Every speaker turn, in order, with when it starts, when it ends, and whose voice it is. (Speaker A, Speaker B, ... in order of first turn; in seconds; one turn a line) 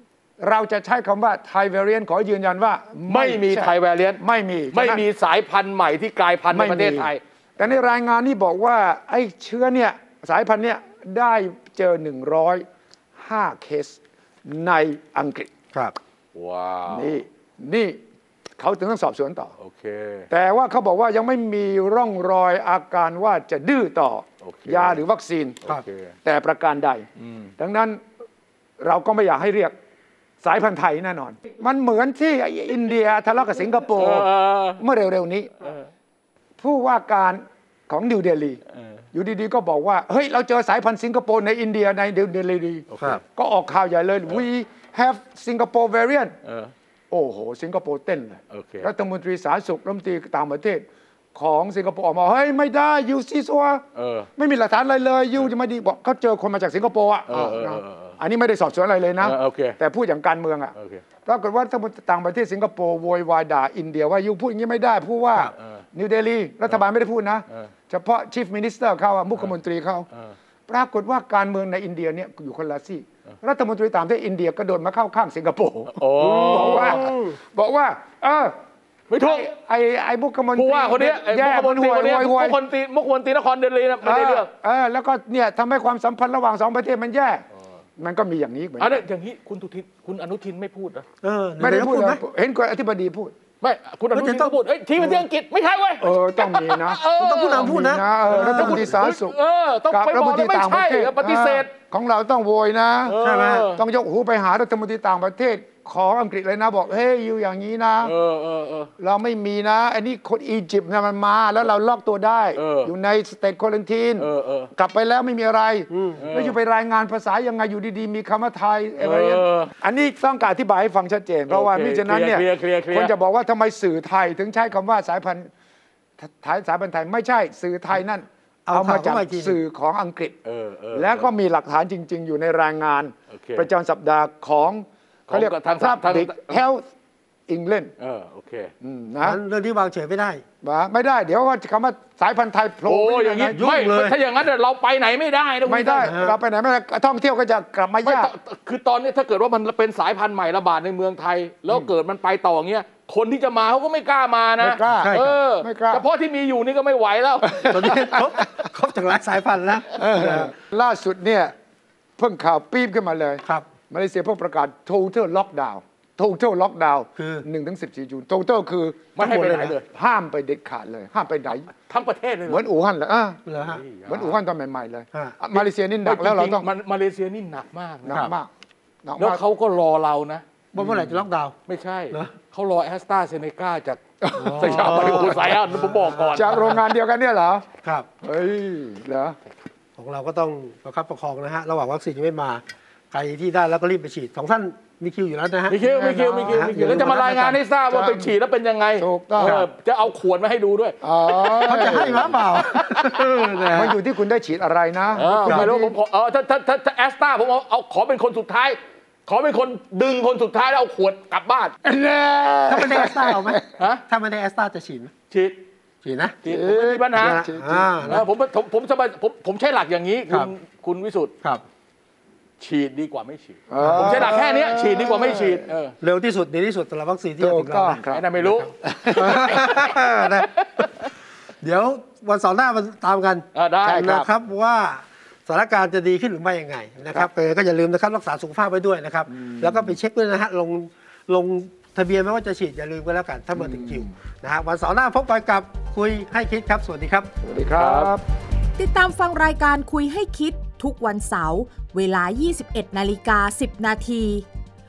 Speaker A: 0.4-5.0
Speaker B: 3.1-7.7
Speaker A: 6.5-12.7
Speaker A: 13.2-15.5
Speaker B: 16.3-17.1
Speaker A: 16.9-18.0
Speaker A: 18.6-19.5
Speaker B: 19.6-20.3
Speaker A: 20.3-25.6
Speaker B: 24.4-25.0
Speaker B: 25.6-26.1
Speaker A: 26.2-28.0
Speaker B: 27.2-27.5
Speaker A: 28.8-29.7
Speaker A: 30.4-35.5
Speaker B: 34.0-34.8
Speaker A: 36.6-38.6
Speaker A: 39.1-46.4
Speaker B: 42.9-43.2
Speaker B: 46.5-46.7
Speaker A: 47.1-53.9
Speaker B: 48.5-48.9
Speaker B: 54.0-54.3
Speaker A: 54.4-60.7
Speaker B: 57.3-58.1
Speaker B: 59.2-59.8
Speaker B: 60.8-61.0
Speaker A: 61.2-70.1
Speaker A: 70.7-78.5
Speaker B: 75.9-77.1
Speaker C: 76.2-77.4
Speaker B: 79.1-79.5
Speaker A: 79.2-82.6
Speaker B: 80.5-84.5
Speaker A: 84.0-87.4
Speaker A: 88.0-89.0
Speaker B: 88.8-91.0
Speaker C: 91.2-92.2
Speaker A: 91.6-93.3
Speaker B: 93.6-101.7
Speaker C: 94.1-94.5
Speaker A: 96.0-99.3
Speaker C: 97.1-98.8
Speaker A: 99.9-108.1
Speaker B: 103.0-103.8
Speaker C: 103.2-103.7
Speaker B: 108.0-108.9
Speaker A: 109.0-125.5
Speaker B: 112.6-112.9
Speaker B: 114.2-114.7
Speaker C: 115.9-116.2
Speaker B: 116.2-116.5
Speaker B: 119.0-119.7
Speaker B: 121.5-123.1
Speaker A: 126.2-130.4
Speaker C: 128.7-129.6
Speaker B: 130.4-131.3
Speaker A: 130.9-136.8
Speaker B: 133.3-133.7
Speaker B: 135.3-136.6
Speaker A: 137.5-137.9
Speaker B: 138.0-138.7
Speaker A: 138.8-139.4
Speaker C: 139.2-140.4
Speaker A: 140.6-143.6
Speaker B: 142.9-146.1
Speaker C: 143.5-144.2
Speaker A: 145.7-148.3
Speaker C: 146.0-146.4
Speaker B: 148.0-157.8
Speaker A: 154.6-156.0
Speaker C: 155.0-155.3
Speaker A: 157.5-158.3
Speaker C: 157.6-160.5
Speaker A: 159.9-161.5
Speaker A: 162.2-171.7
Speaker C: 167.2-167.4
Speaker B: 169.1-169.8
Speaker C: 169.2-169.7
Speaker B: 171.7-172.6
Speaker A: 172.5-173.4
Speaker C: 173.4-173.8
Speaker B: 173.6-174.4
Speaker A: 174.1-176.7
Speaker B: 175.5-178.2
Speaker A: 178.1-178.5
Speaker A: 179.0-179.4
Speaker B: 179.2-180.4
Speaker C: 180.7-181.5
Speaker A: 180.8-181.1
Speaker B: 181.7-184.0
Speaker A: 184.2-185.5
Speaker C: 184.3-186.8
Speaker B: 184.5-186.7
Speaker A: 186.3-187.7
Speaker A: 188.2-189.4
Speaker C: 190.0-195.8
Speaker B: 195.7-203.3
Speaker A: 195.8-198.3
Speaker C: 196.5-197.0
Speaker A: 199.0-199.6
Speaker C: 199.4-199.7
Speaker A: 201.0-202.3
Speaker C: 201.7-204.0
Speaker A: 203.7-205.9
Speaker B: 205.2-211.7
Speaker C: 205.4-205.7
Speaker A: 211.8-213.7
Speaker C: 212.7-215.1
Speaker B: 215.3-215.6
Speaker C: 216.0-216.4
Speaker B: 216.4-217.4
Speaker A: 216.4-218.2
Speaker C: 217.2-218.2
Speaker B: 218.1-221.3
Speaker B: 222.6-225.9
Speaker A: 223.7-225.7
Speaker C: 223.8-224.2
Speaker C: 226.0-228.0
Speaker A: 227.4-229.7
Speaker B: 228.1-228.7
Speaker C: 229.1-230.5
Speaker C: 231.6-247.3
Speaker B: 233.5-234.3
Speaker A: 233.8-234.3
Speaker A: 239.3-239.9
Speaker A: 243.6-244.1
Speaker A: 247.4-248.2
Speaker B: 247.8-248.1
Speaker D: 248.8-254.4